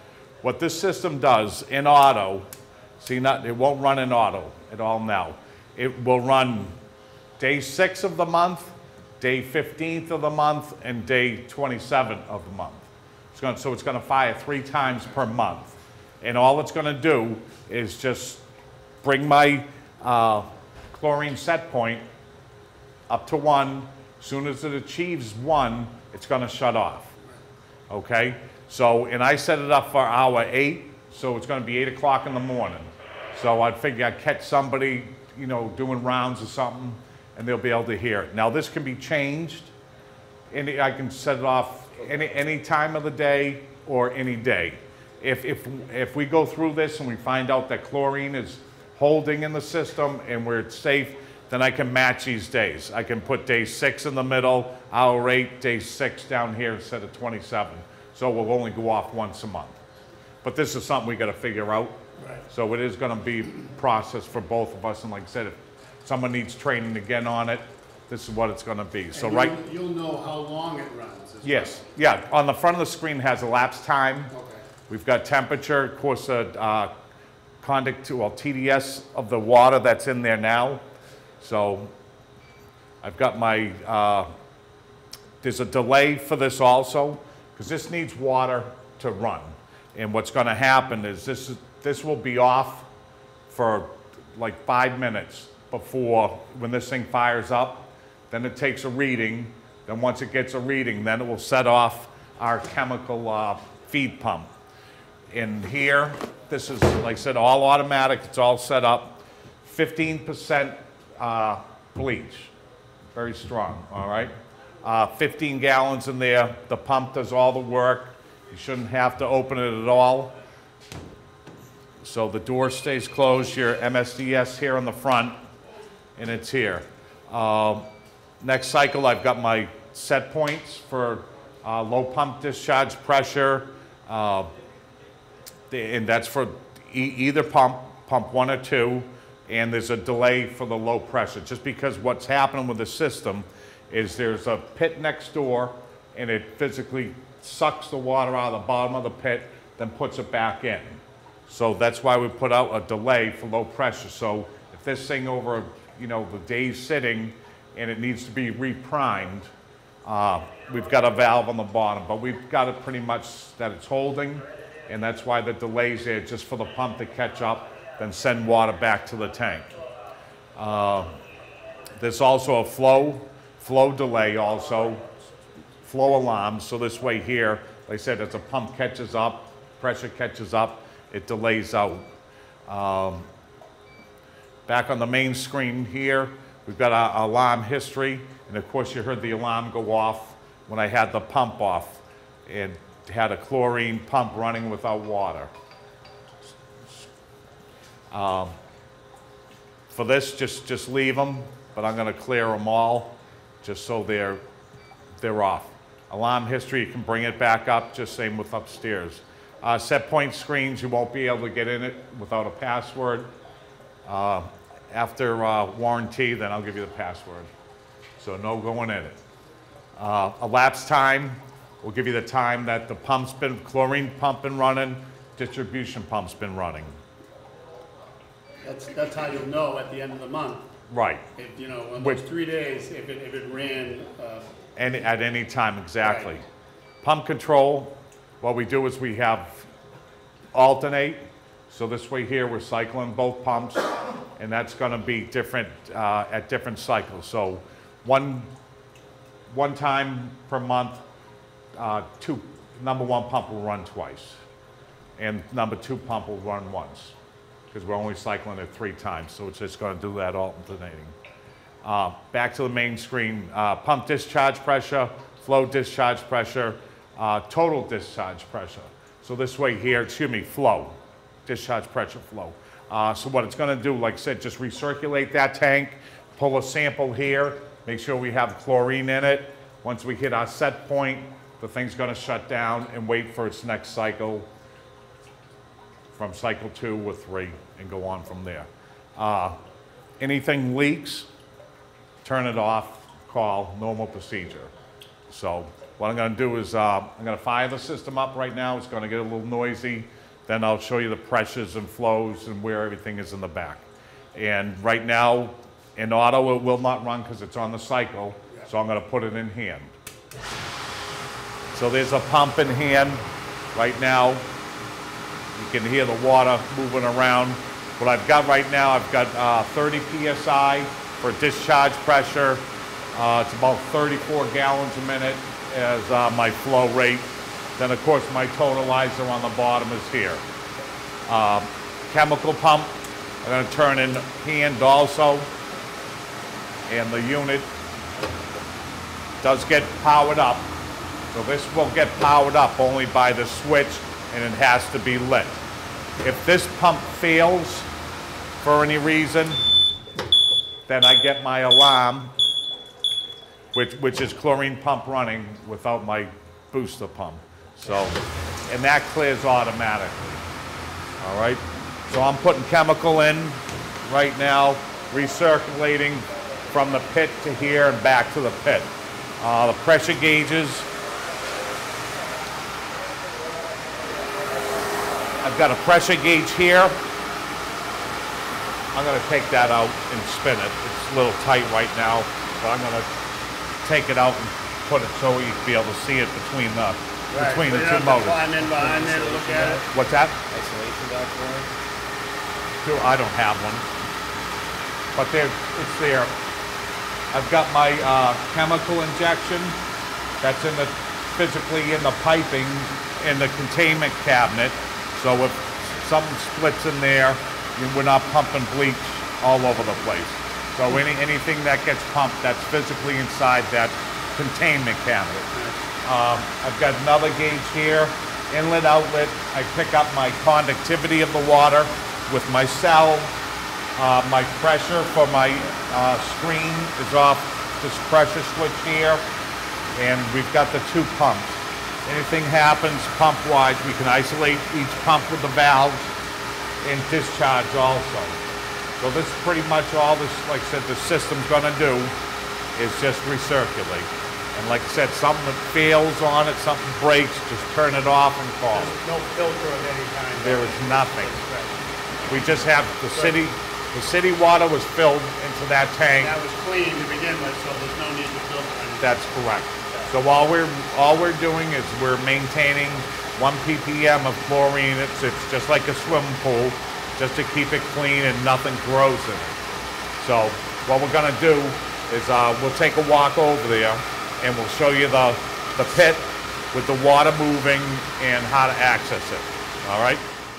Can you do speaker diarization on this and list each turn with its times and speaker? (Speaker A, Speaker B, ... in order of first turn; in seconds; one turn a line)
Speaker A: 0.4-2.5
Speaker A: 3.0-6.7
Speaker A: 7.4-18.4
Speaker A: 19.0-22.0
Speaker A: 23.1-27.1
Speaker A: 27.9-39.7
Speaker A: 40.5-59.8
Speaker A: 60.4-62.0
Speaker B: 62.2-62.4
Speaker A: 62.5-69.6
Speaker B: 69.1-71.8
Speaker A: 71.4-74.3
Speaker B: 74.3-74.6
Speaker A: 74.9-76.9
Speaker A: 77.6-80.8
Speaker A: 81.4-81.9
Speaker A: 83.0-84.3
Speaker A: 85.4-92.9
Speaker A: 93.5-104.5
Speaker A: 105.3-112.5
Speaker A: 113.1-120.3
Speaker A: 122.0-125.3
Speaker A: 126.2-127.9
Speaker A: 128.4-134.5
Speaker A: 135.7-159.5
Speaker A: 160.0-169.7
Speaker A: 170.6-171.1
Speaker A: 172.0-175.1
Speaker A: 175.8-182.1
Speaker A: 182.7-183.3
Speaker A: 184.7-195.5
Speaker A: 198.1-198.5
Speaker A: 199.9-204.4
Speaker A: 205.2-213.3
Speaker A: 214.1-217.5
Speaker A: 218.2-219.2
Speaker A: 220.0-226.9
Speaker B: 228.6-230.6
Speaker A: 230.9-231.2
Speaker B: 231.3-234.5
Speaker A: 234.8-236.4
Speaker B: 236.0-236.3
Speaker A: 237.0-239.7
Speaker A: 240.5-248.5
Speaker A: 249.5-251.0
Speaker A: 251.7-254.4
Speaker A: 255.2-257.1
Speaker A: 257.7-261.1
Speaker A: 261.8-284.5
Speaker A: 286.1-289.6
Speaker A: 290.2-291.3
Speaker A: 292.2-294.7
Speaker A: 295.3-303.8
Speaker A: 304.3-309.9
Speaker A: 311.7-314.4
Speaker A: 315.5-330.4
Speaker A: 331.2-335.5
Speaker A: 336.9-337.7
Speaker A: 339.4-340.7
Speaker A: 341.3-345.6
Speaker A: 346.2-347.9
Speaker A: 348.6-349.6
Speaker A: 350.9-352.3
Speaker A: 353.7-360.4
Speaker A: 361.2-370.9
Speaker A: 375.4-377.0
Speaker A: 378.9-383.1
Speaker A: 383.8-388.5
Speaker B: 387.3-389.8
Speaker C: 388.6-389.9
Speaker A: 389.9-390.4
Speaker C: 390.5-391.7
Speaker A: 392.8-393.8
Speaker A: 395.1-396.4
Speaker A: 397.3-399.8
Speaker A: 400.4-415.5
Speaker B: 415.5-415.8
Speaker A: 416.0-423.3
Speaker A: 423.9-429.2
Speaker A: 429.9-436.1
Speaker A: 436.8-438.4
Speaker A: 439.0-442.1
Speaker A: 442.7-448.9
Speaker B: 448.7-451.8
Speaker A: 450.4-451.4
Speaker A: 452.3-456.4
Speaker B: 453.1-453.4
Speaker B: 456.2-459.2
Speaker A: 459.0-469.6
Speaker A: 470.2-480.2